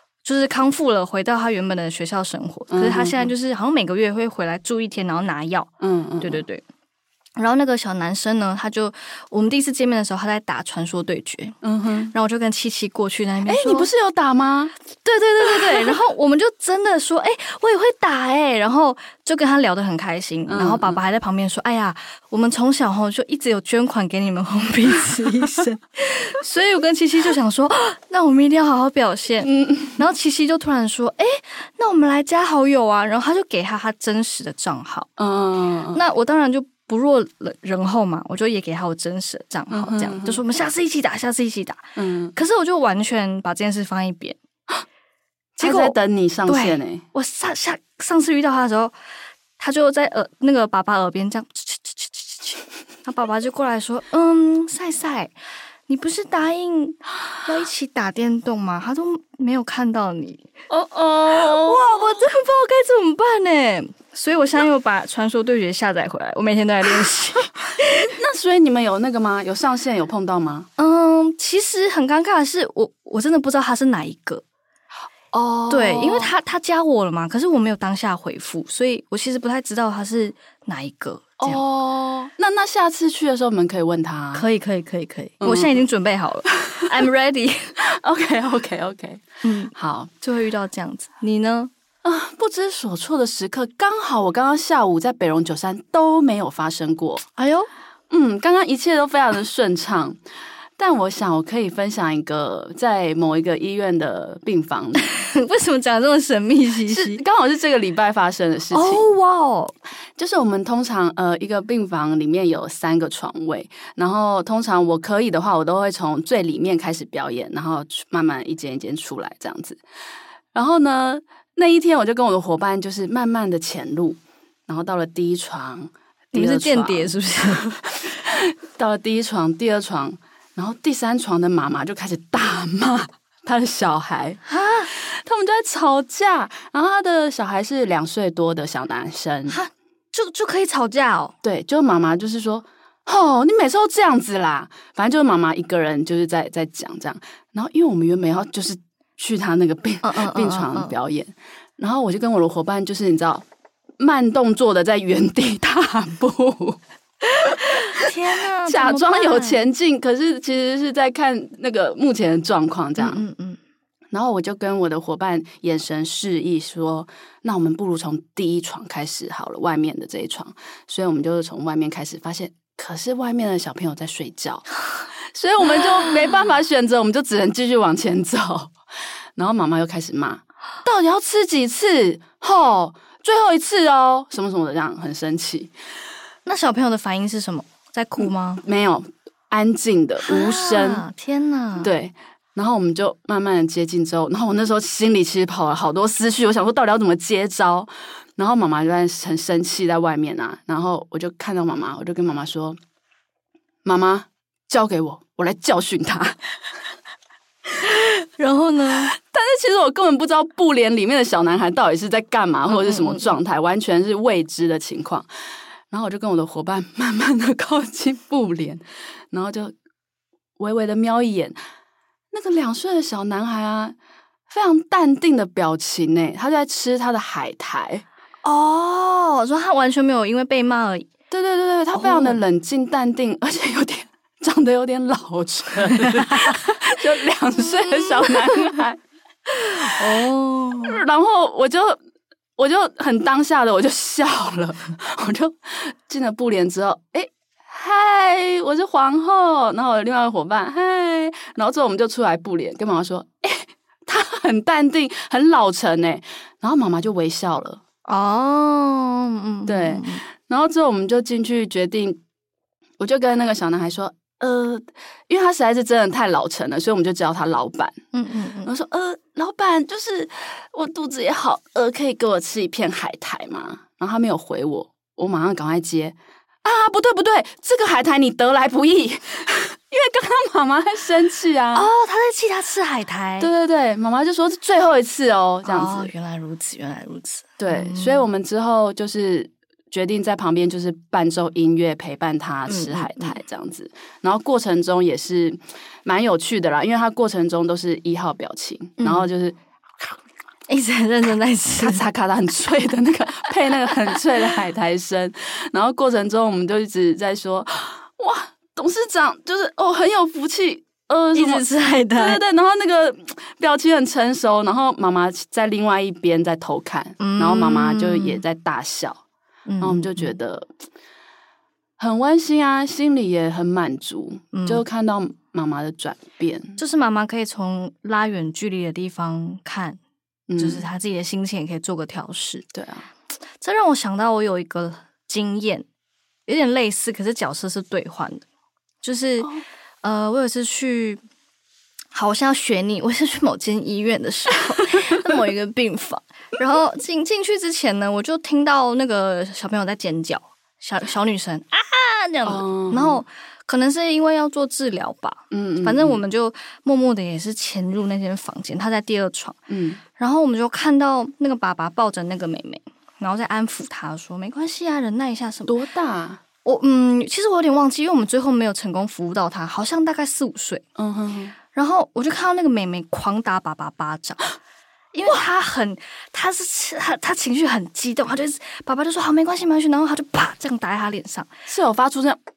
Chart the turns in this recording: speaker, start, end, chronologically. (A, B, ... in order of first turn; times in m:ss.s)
0:00.2-0:06.6 A
0:02.7-0:03.3 B
0:05.8-0:06.4 B
0:07.4-0:11.6 A
0:11.6-0:12.1 B
0:12.1-0:13.9 A
0:13.5-0:14.7 B
0:15.0-0:35.1 A
0:20.5-0:21.0 B
0:29.4-0:30.0 B
0:35.2-0:36.0 B
0:35.9-0:41.8 A
0:39.7-0:40.4 B
0:42.0-0:42.3 B
0:42.3-0:44.4 A
0:45.6-0:47.0 B
0:45.6-0:48.9 A
0:49.6-0:55.3 A
0:55.9-1:08.0 A
1:01.2-1:02.3 B
1:08.1-1:10.7 B
1:10.8-1:14.4 A
1:15.3-1:16.3 B
1:15.7-1:21.6 A
1:21.4-1:24.4 B
1:24.3-1:27.7 A
1:25.4-1:25.8 B
1:28.0-1:29.2 B
1:29.4-1:31.7 A
1:29.7-1:30.1 B
1:32.0-1:37.2 B
1:37.4-1:37.7 A
1:38.1-1:40.2 B
1:40.8-1:45.0 B
1:45.0-1:47.2 A
1:46.9-1:49.1 B
1:48.7-1:49.7 A
1:50.2-1:59.8 B
2:00.5-2:07.7 B
2:06.3-2:07.6 A
2:08.2-2:19.6 B
2:14.5-2:14.9 A
2:19.5-2:21.3 A
2:21.4-2:33.4 B
2:30.0-2:30.9 A
2:34.0-2:36.8 B
2:37.6-2:39.6 A
2:38.6-2:43.2 B
2:43.0-2:43.6 A
2:44.1-2:54.7 B
2:55.3-2:58.7 B
2:59.4-3:05.7 B
3:06.4-3:08.6 A
3:08.2-3:11.0 B
3:10.3-3:11.9 A
3:11.8-3:22.8 B
3:23.8-3:26.4 B
3:27.8-3:29.1 A
3:29.2-3:35.3 B
3:32.7-3:33.3 A
3:35.9-3:39.7 B
3:40.6-3:41.6 B
3:42.3-3:43.9 B
3:44.5-3:48.0 B
3:48.4-3:51.1 A
3:51.3-3:59.0 B
3:51.9-3:52.4 A
3:57.7-3:58.4 A
3:59.5-4:01.0 A
4:00.8-4:02.0 B
4:02.6-4:17.8 B
4:18.1-4:20.2 A
4:19.6-4:22.2 B
4:23.0-4:28.0 B
4:28.1-4:28.7 A
4:28.6-4:41.9 B
4:41.7-4:43.5 A
4:43.4-4:46.1 B
4:45.6-4:48.3 A
4:47.6-4:59.6 B
4:52.7-4:53.3 A
4:59.0-4:59.3 A
5:00.7-5:02.1 A
5:01.8-5:11.6 B
5:11.3-5:12.4 A
5:12.2-5:19.2 B
5:17.2-5:18.4 A
5:19.7-5:20.3 A
5:19.8-5:20.7 B
5:22.0-5:26.8 B
5:24.5-5:24.8 A
5:26.8-5:30.0 A
5:30.5-5:30.8 B
5:30.6-5:32.6 A
5:32.7-5:33.0 B
5:33.6-5:35.8 A
5:36.4-5:38.4 A
5:39.0-5:39.5 A
5:40.0-5:41.2 A
5:42.1-5:59.6 A
5:52.4-5:53.2 B
5:55.5-5:56.2 B
5:59.7-6:00.0 B
6:00.2-6:05.7 A
6:05.6-6:06.4 B
6:06.6-6:10.8 A
6:11.0-6:11.5 B
6:11.7-6:14.5 A
6:15.1-6:21.5 A
6:21.7-6:22.4 B